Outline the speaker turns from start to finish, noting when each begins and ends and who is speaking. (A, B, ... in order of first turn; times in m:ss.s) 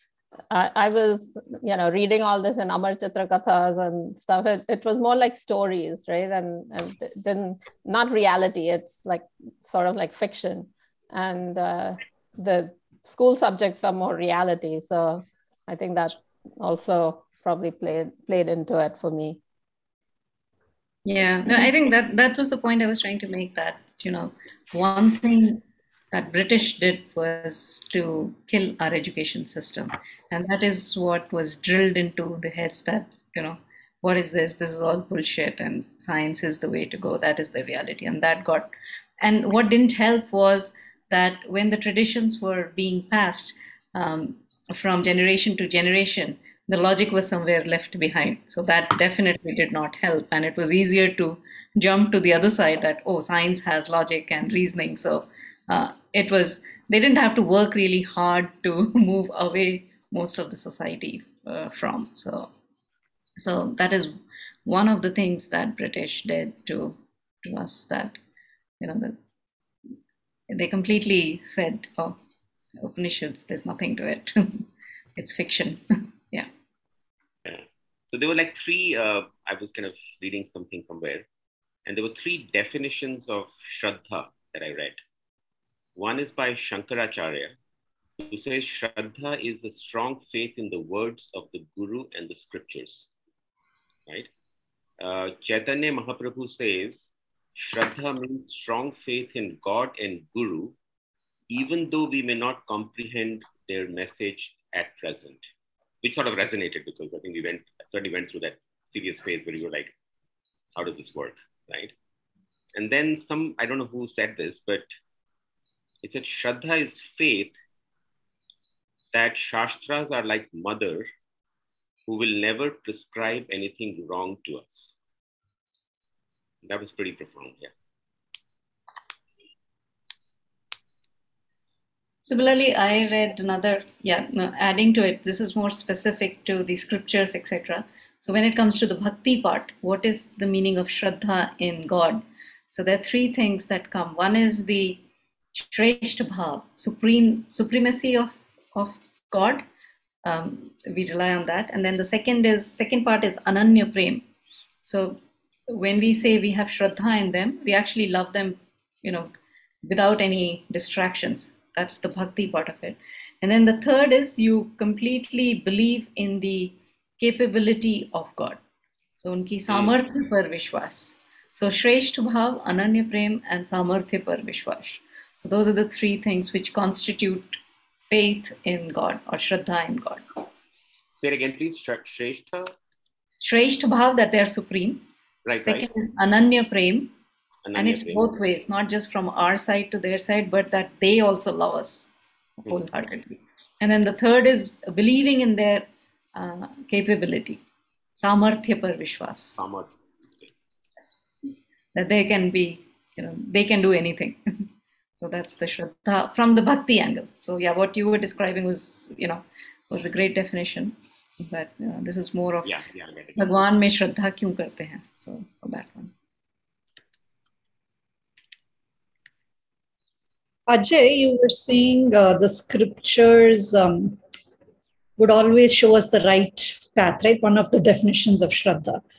0:00.5-0:19.4 A
0:21.0-1:02.5 B
1:03.4-1:04.2 B
1:04.7-1:08.2 B
1:08.8-1:09.2 B
1:10.5-1:12.2 B
1:12.8-1:16.5 B
1:17.4-1:21.3 C
1:21.9-1:25.0 C
1:26.0-1:27.5 C
1:28.2-1:33.1 C
1:35.0-1:40.8 C
1:41.5-1:45.4 C
1:46.0-1:49.9 C
1:50.8-1:51.9 C
1:52.7-1:54.9 C
1:56.0-1:57.6 C
1:59.1-2:01.1 C
2:02.1-2:04.9 C
2:06.6-2:07.7 C
2:12.2-2:29.6 B
2:30.2-2:34.2 B
2:34.8-2:39.3 B
2:39.8-2:48.6 B
2:49.2-2:57.6 B
2:49.7-2:49.9 C
2:58.1-3:00.3 B
3:01.2-3:02.7 C
3:03.4-3:05.0 B
3:05.4-3:05.9 C
3:05.6-3:07.1 B
3:07.6-3:08.4 C
3:07.8-3:12.1 B
3:12.7-3:17.6 B
3:18.2-3:19.6 B
3:19.6-3:20.5 C
3:22.0-3:24.4 B
3:25.2-3:32.7 B
3:32.6-3:33.4 C
3:33.4-3:36.1 B
3:40.7-3:44.2 D
3:45.2-3:49.0 D